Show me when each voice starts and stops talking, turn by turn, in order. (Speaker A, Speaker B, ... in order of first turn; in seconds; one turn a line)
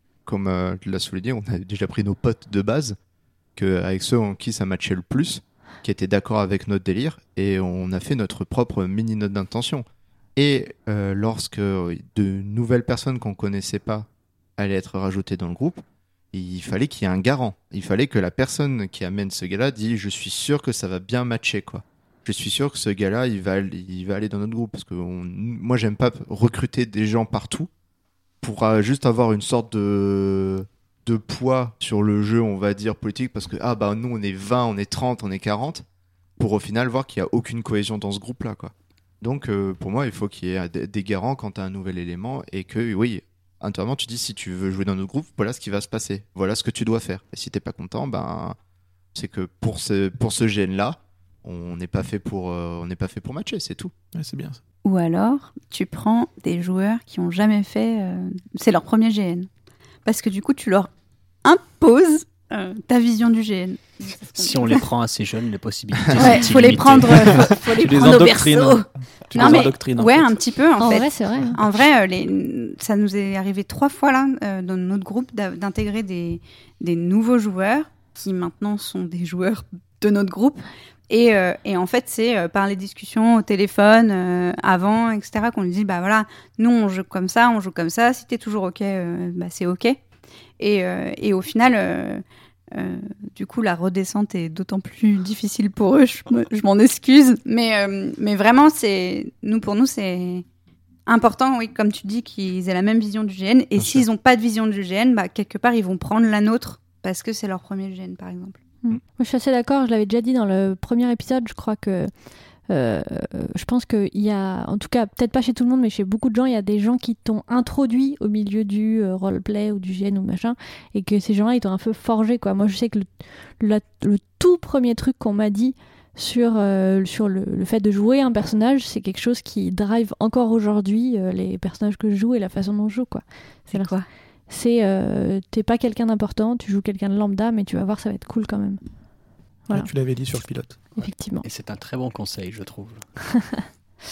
Speaker A: 0.2-3.0
Speaker A: 3.5-9.8
Speaker A: 10.3-15.8
Speaker A: 16.3-27.7
Speaker A: 28.4-35.8
Speaker A: 36.4-48.6
Speaker A: 49.1-53.9
Speaker B: 54.1-54.6
Speaker C: 54.8-59.5
Speaker C: 60.0-60.9
Speaker C: 61.4-64.8
Speaker D: 64.3-67.5
Speaker C: 66.2-90.0
Speaker B: 67.7-70.4
Speaker E: 70.8-71.6
Speaker C: 90.6-92.2
Speaker C: 92.7-100.4
Speaker C: 101.1-108.6
Speaker E: 108.8-112.1
Speaker E: 112.7-138.8
Speaker C: 133.7-134.0
Speaker B: 139.7-141.1
Speaker E: 140.9-141.4
Speaker D: 141.4-143.1
Speaker E: 143.3-143.7